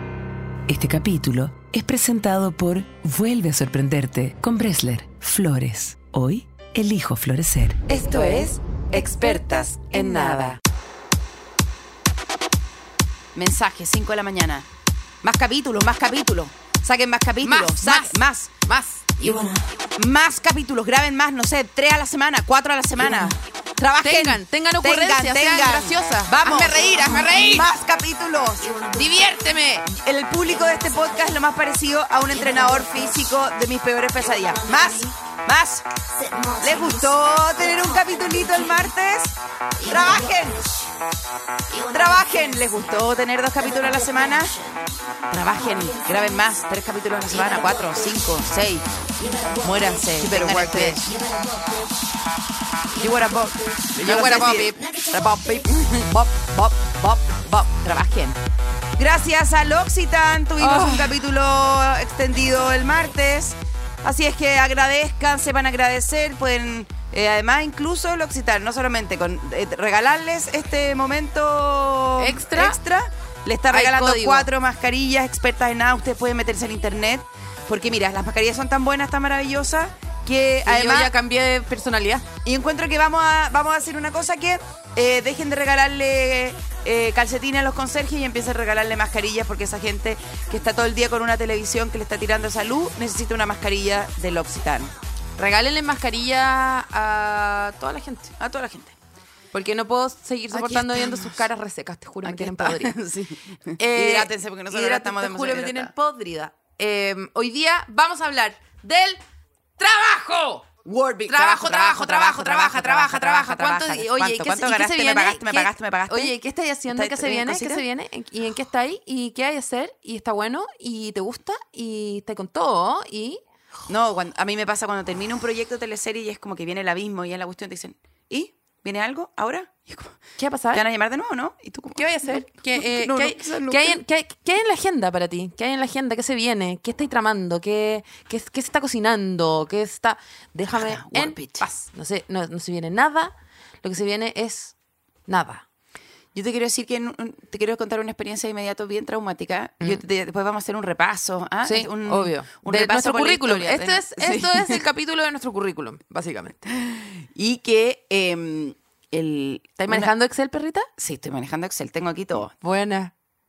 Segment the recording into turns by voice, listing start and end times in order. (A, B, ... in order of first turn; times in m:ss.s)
0:00.7-0:09.7 A
0:07.9-0:10.6 B
0:09.9-0:10.6 C
0:13.3-0:14.7 B
0:15.2-0:18.5 B
0:17.4-0:19.3 C
0:19.2-0:28.9 B
0:24.0-0:27.7 C
0:28.9-0:29.9 C
0:29.8-0:35.8 B
0:36.5-0:40.7 B
0:41.7-0:44.6 B
0:45.3-0:48.8 B
0:49.4-0:51.3 B
0:50.2-0:51.1 C
0:52.9-0:58.4 B
0:54.0-0:54.9 C
0:59.0-1:21.1 B
1:00.6-1:01.2 C
1:12.2-1:12.8 C
1:13.7-1:14.5 C
1:20.6-1:22.2 C
1:22.4-1:34.9 B
1:35.4-1:38.3 C
1:38.4-1:38.9 B
1:39.5-1:43.0 C
1:40.5-1:41.4 B
1:42.2-1:45.9 B
1:43.8-1:49.2 C
1:49.8-1:50.7 C
1:50.8-1:56.3 B
1:51.3-2:03.4 C
1:56.9-1:57.8 B
2:03.9-2:10.2 B
2:10.4-2:10.8 C
2:10.7-2:14.0 B
2:11.9-2:24.7 C
2:20.7-2:21.6 B
2:25.3-2:25.6 C
2:26.3-2:34.8 B
2:31.6-2:36.6 C
2:36.7-2:40.1 B
2:39.8-2:40.9 C
2:41.0-2:42.5 B
2:42.6-2:43.1 C